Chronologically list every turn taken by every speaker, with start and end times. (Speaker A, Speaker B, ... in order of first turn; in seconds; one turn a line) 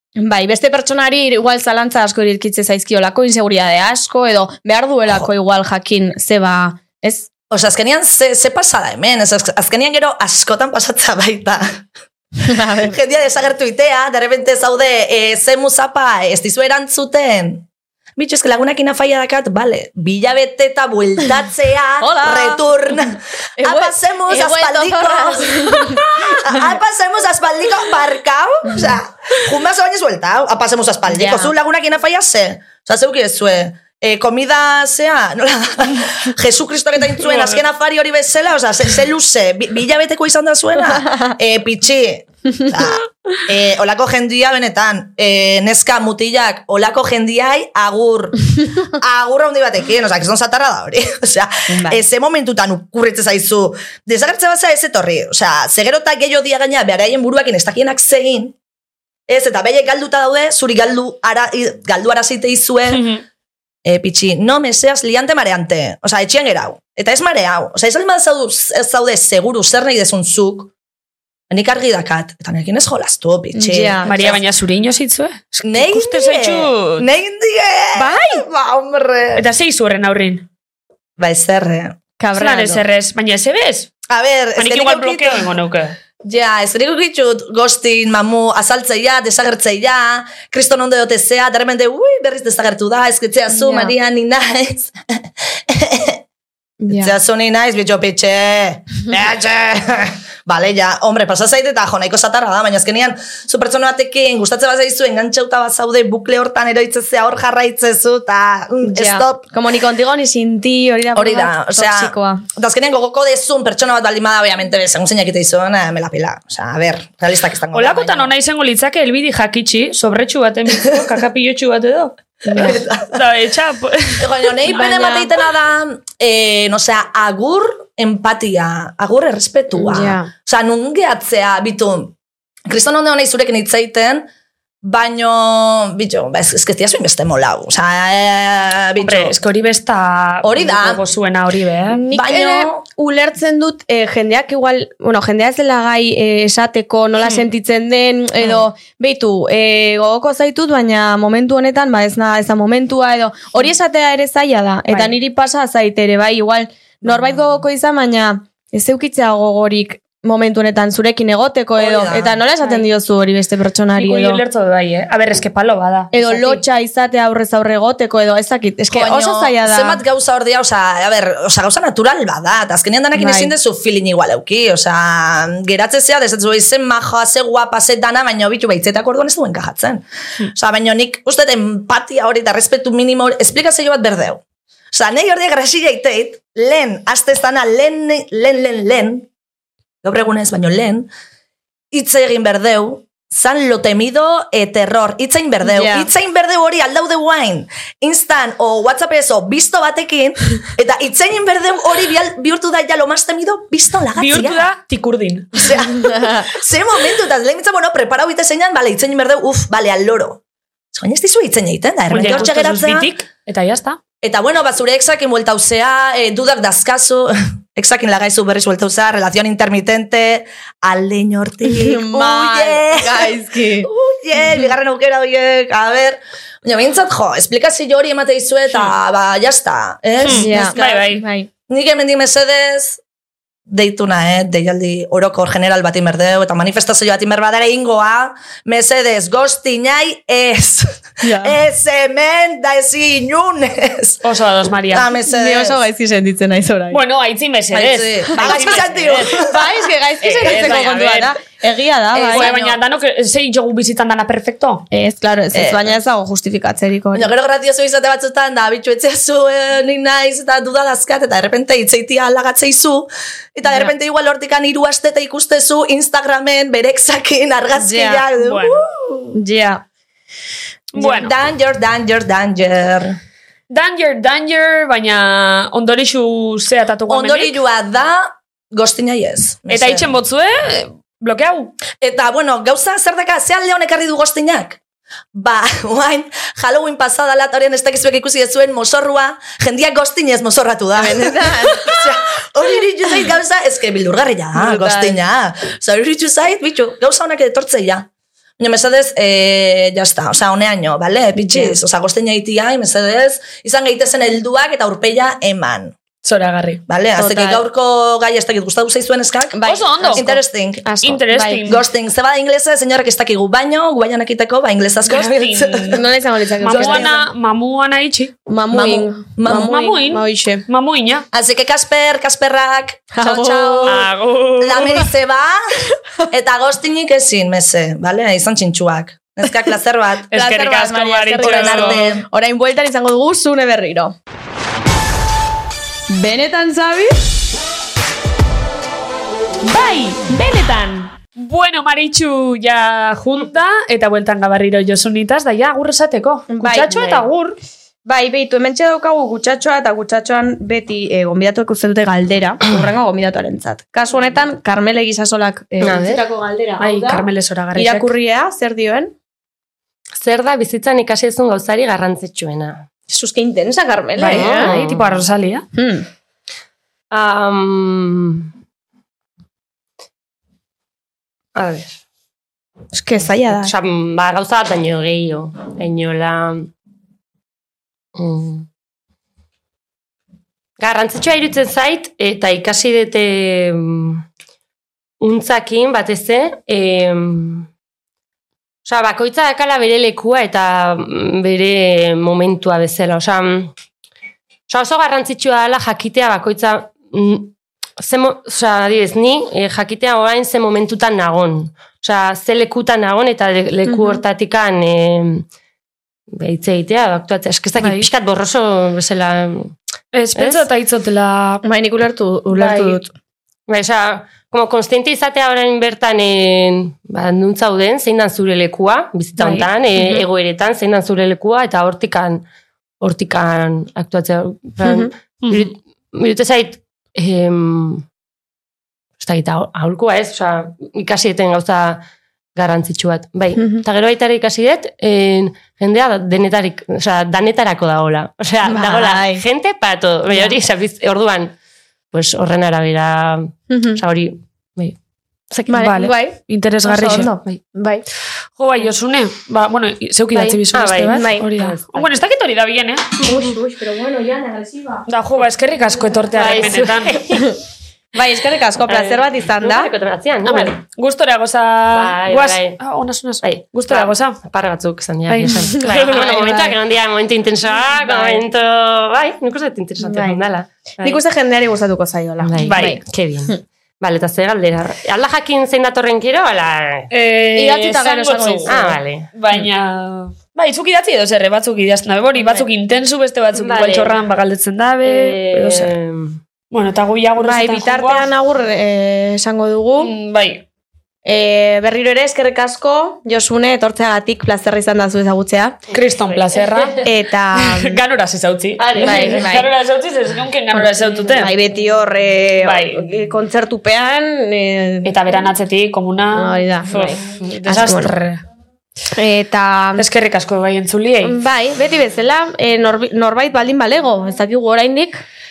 Speaker A: 0.2-7.3
Speaker B: 7.5-11.8
Speaker A: 12.4-13.0
Speaker B: 12.8-17.7
Speaker B: 18.2-58.5
Speaker A: 22.0-22.6
Speaker A: 23.6-26.6
Speaker A: 31.1-31.5
Speaker C: 37.3-37.6
Speaker A: 41.0-41.3
Speaker A: 51.7-52.0
Speaker B: 59.3-63.1
Speaker C: 62.9-63.2
Speaker B: 63.9-70.7
Speaker B: 71.5-74.4
Speaker A: 73.5-74.1
Speaker C: 74.0-77.1
Speaker B: 75.5-79.5
Speaker C: 79.3-80.5
Speaker B: 81.2-82.0
Speaker A: 82.2-82.8
Speaker C: 82.3-83.9
Speaker B: 84.1-85.5
Speaker C: 84.6-86.0
Speaker B: 86.2-96.2
Speaker A: 93.5-93.9
Speaker A: 96.8-97.2
Speaker B: 96.9-109.4
Speaker A: 108.8-112.4
Speaker B: 111.2-118.3
Speaker C: 117.7-124.5
Speaker B: 122.5-123.2
Speaker B: 124.2-132.2
Speaker A: 124.7-125.3
Speaker A: 129.8-130.3
Speaker B: 132.7-134.3
Speaker B: 134.8-139.3
Speaker C: 139.0-142.0
Speaker B: 140.4-141.0
Speaker A: 141.9-164.4
Speaker B: 142.1-142.8
Speaker C: 154.9-155.2
Speaker B: 161.8-162.4
Speaker C: 163.9-166.6
Speaker A: 166.1-170.0
Speaker B: 168.9-189.3
Speaker A: 173.2-173.5
Speaker B: 190.0-191.1
Speaker B: 191.9-204.7
Speaker A: 195.6-196.1
Speaker C: 204.2-205.7
Speaker B: 205.6-210.4
Speaker A: 206.0-206.5
Speaker B: 210.9-213.1
Speaker C: 212.1-214.0
Speaker B: 214.2-230.7
Speaker A: 221.7-223.9
Speaker C: 230.2-231.2
Speaker A: 230.3-231.5
Speaker B: 231.7-233.0
Speaker B: 233.7-244.2
Speaker A: 241.2-241.6
Speaker C: 244.2-245.1
Speaker B: 244.9-245.8
Speaker A: 245.3-247.0
Speaker C: 246.9-249.4
Speaker B: 247.7-249.6
Speaker A: 248.3-248.8
Speaker A: 249.3-252.6
Speaker C: 250.2-251.4
Speaker B: 252.1-252.8
Speaker C: 252.3-254.9
Speaker A: 254.9-257.3
Speaker B: 255.5-255.9
Speaker B: 257.1-269.4
Speaker A: 263.7-263.9
Speaker A: 267.8-268.2
Speaker C: 268.4-268.8
Speaker A: 269.4-269.8
Speaker C: 270.9-271.3
Speaker B: 270.9-273.2
Speaker C: 273.7-277.6
Speaker B: 277.1-280.1
Speaker C: 279.7-281.8
Speaker B: 282.0-284.8
Speaker B: 285.3-298.1
Speaker A: 290.9-292.0
Speaker A: 294.5-295.2
Speaker B: 298.6-306.0
Speaker A: 301.5-301.8
Speaker C: 306.2-306.8
Speaker B: 306.9-316.0
Speaker A: 307.1-307.7
Speaker A: 309.5-310.3
Speaker C: 309.6-311.8
Speaker A: 311.3-311.7
Speaker C: 315.1-316.0
Speaker A: 315.9-317.2
Speaker C: 316.6-318.3
Speaker B: 316.8-317.1
Speaker A: 318.5-320.6
Speaker B: 318.7-319.7
Speaker C: 319.5-321.3
Speaker B: 321.3-325.6
Speaker A: 323.1-324.0
Speaker C: 323.9-325.0
Speaker B: 326.3-330.3
Speaker C: 330.3-332.0
Speaker A: 330.3-334.2
Speaker B: 331.4-332.2
Speaker A: 336.1-337.2
Speaker C: 339.6-347.6
Speaker A: 346.5-347.3
Speaker A: 348.1-359.1
Speaker D: 355.8-356.2
Speaker C: 356.8-358.1
Speaker D: 360.2-362.9
Speaker A: 363.1-364.7
Speaker C: 364.2-365.7
Speaker D: 364.2-365.3
Speaker A: 365.8-366.1
Speaker D: 367.1-368.5
Speaker D: 371.6-372.0
Speaker A: 372.9-373.7
Speaker D: 373.2-376.7
Speaker D: 378.2-378.7
Speaker D: 380.8-384.2
Speaker D: 385.2-387.7
Speaker D: 388.9-393.7
Speaker D: 394.7-405.5
Speaker A: 403.9-404.2
Speaker D: 406.3-409.7
Speaker C: 407.8-408.1
Speaker C: 410.1-411.6
Speaker D: 410.4-410.6
Speaker A: 411.6-413.1
Speaker C: 412.5-413.0
Speaker D: 413.7-422.4
Speaker C: 419.4-419.7
Speaker D: 423.0-428.1
Speaker A: 424.8-425.1
Speaker D: 429.2-432.0
Speaker D: 432.6-441.6
Speaker A: 438.6-439.4
Speaker D: 442.1-445.0
Speaker A: 443.7-444.0
Speaker C: 445.7-447.3
Speaker A: 445.7-448.0
Speaker D: 447.0-447.6
Speaker C: 448.6-453.1
Speaker D: 450.3-452.2
Speaker A: 451.1-451.5
Speaker A: 453.2-455.1
Speaker C: 455.1-457.2
Speaker D: 456.3-457.6
Speaker A: 458.1-459.9
Speaker D: 458.9-460.8
Speaker C: 460.4-464.4
Speaker D: 461.9-462.8
Speaker D: 463.4-471.2
Speaker A: 465.3-466.7
Speaker C: 465.8-466.4
Speaker C: 467.8-468.4
Speaker A: 470.0-470.4
Speaker A: 471.0-473.6
Speaker D: 472.4-477.1
Speaker C: 472.6-473.0
Speaker C: 477.1-485.9
Speaker A: 477.6-478.9
Speaker D: 478.7-479.3
Speaker D: 483.6-484.2
Speaker D: 485.0-486.4
Speaker C: 486.7-488.3
Speaker A: 487.4-490.1
Speaker C: 490.0-490.6
Speaker A: 491.2-495.8
Speaker C: 495.9-497.0
Speaker D: 496.3-497.0
Speaker A: 497.0-498.0
Speaker C: 497.6-501.5
Speaker D: 498.8-499.5
Speaker A: 499.0-499.7
Speaker A: 500.7-505.5
Speaker C: 502.6-503.1
Speaker C: 505.1-508.4
Speaker A: 506.3-508.1
Speaker A: 509.1-510.1
Speaker C: 510.0-511.4
Speaker A: 511.2-515.2